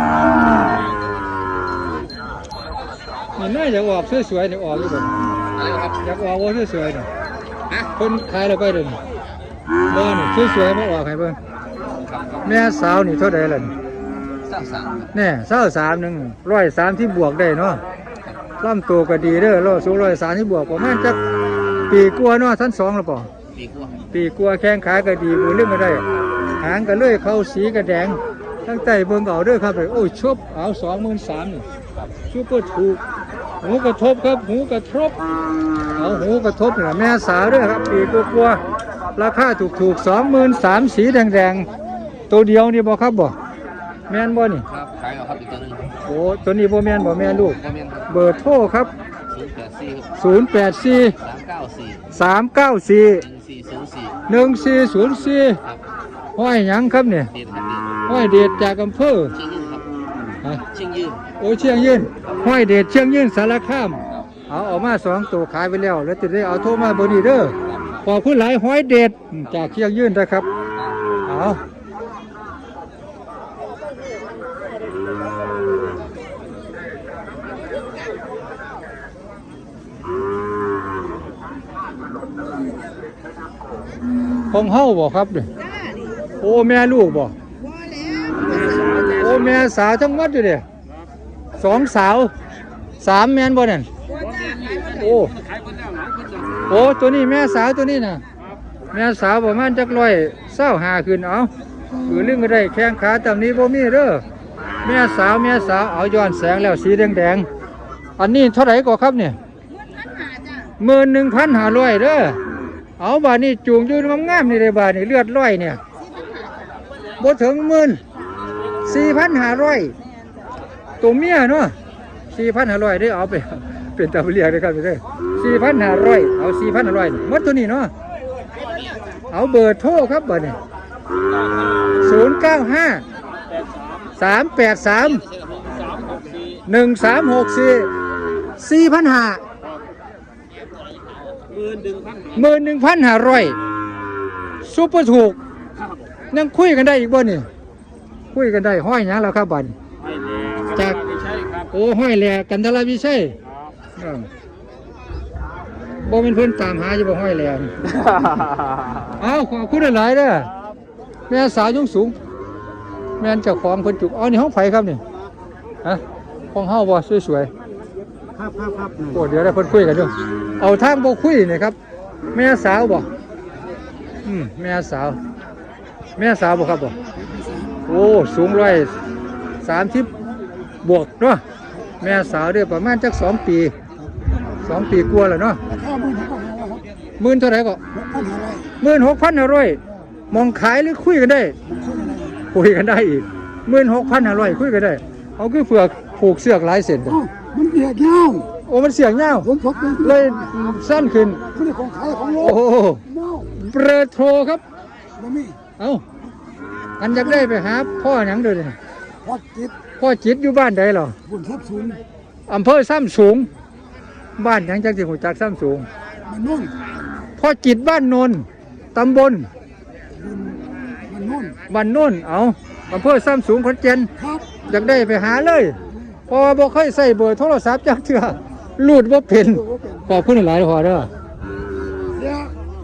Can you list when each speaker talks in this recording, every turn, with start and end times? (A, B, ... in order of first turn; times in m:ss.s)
0:03.4-0:05.1 A
0:05.5-0:06.0 B
0:06.0-0:07.1 A
0:08.0-0:09.0 A
0:09.9-0:11.4 A
0:11.9-0:12.5 B
0:12.4-0:13.7 A
0:14.4-0:15.1 B
0:15.1-0:17.8 A
0:18.6-0:21.2 A
0:21.9-0:23.3 A
0:23.5-0:24.1 B
0:24.1-0:26.0 A
0:26.6-0:31.6 A
0:32.3-0:33.0 A
0:33.6-0:35.2 A
0:36.0-0:38.6 A
0:39.2-0:41.7 A
0:42.3-0:43.4 A
0:44.1-0:44.7 A
0:44.7-0:46.0 B
0:46.1-0:48.9 A
0:47.6-0:48.1 B
0:49.3-0:50.1 B
0:50.2-0:51.2 A
0:51.2-0:52.0 B
0:52.1-0:53.2 A
0:53.2-0:54.2 B
0:54.3-0:55.6 A
0:56.4-0:57.3 A
0:57.3-0:58.0 B
0:58.1-0:59.4 A
0:59.4-0:59.9 B
1:00.7-1:01.3 B
1:01.4-1:10.5 A
1:07.6-1:08.1 B
1:10.8-1:11.0 B
1:11.3-1:11.6 A
1:24.5-1:25.5 A
1:25.6-1:26.2 C
1:26.4-1:27.3 A
1:27.6-1:29.4 C
1:29.1-1:30.6 A
1:31.6-1:32.3 A
1:33.0-1:33.9 A
1:34.1-1:36.1 C
1:34.2-1:34.9 B
1:35.0-1:35.3 A
1:35.6-1:36.5 B
1:36.7-1:38.2 A
1:38.9-1:41.5 A
1:42.0-1:44.2 A
1:44.8-1:47.5 A
1:48.2-1:49.4 A
1:50.1-1:50.7 C
1:50.8-1:52.4 A
1:53.0-1:55.8 A
1:57.2-1:58.0 A
1:58.8-1:59.9 A
2:01.0-2:01.8 A
2:02.3-2:07.9 A
2:09.3-2:10.6 A
2:12.0-2:13.0 A
2:14.2-2:15.2 A
2:15.3-2:16.6 B
2:16.7-2:17.9 A
2:18.6-2:19.4 A
2:21.5-2:22.3 B
2:22.3-2:23.6 A
2:24.6-2:25.4 A
2:26.3-2:27.5 A
2:28.3-2:29.8 A
2:30.2-2:31.7 C
2:30.7-2:31.0 A
2:31.7-2:33.3 A
2:34.0-2:34.3 A
2:36.0-2:37.7 A
2:39.2-2:40.5 A
2:41.3-2:42.2 A
2:43.2-2:45.0 A
2:46.5-2:47.5 A
2:48.6-2:49.0 C
2:49.1-2:51.8 A
2:52.3-2:53.1 A
2:54.2-2:55.2 A
2:56.2-2:57.0 A
2:57.9-2:58.9 A
2:59.6-3:00.1 A
3:00.8-3:01.4 A
3:02.0-3:03.8 A
3:04.6-3:05.6 A
3:05.7-3:06.8 C
3:07.2-3:07.8 A
3:07.9-3:08.7 C
3:08.8-3:11.6 A
3:11.7-3:12.4 C
3:12.5-3:17.2 A
3:17.2-3:18.5 C
3:18.7-3:21.4 A
3:19.6-3:20.0 C
3:21.5-3:22.6 C
3:22.4-3:24.6 A
3:23.1-3:23.4 C
3:25.2-3:25.6 C
3:25.8-3:26.0 A
3:27.0-3:28.8 A
3:29.2-3:29.7 C
3:30.0-3:31.2 A
3:31.3-3:32.0 C
3:32.5-3:33.5 A
3:34.4-3:35.9 A
3:36.2-3:36.8 C
3:37.4-3:39.5 A
3:40.2-3:41.6 C
3:41.7-3:44.1 A
3:44.7-3:45.8 A
3:46.3-3:51.1 A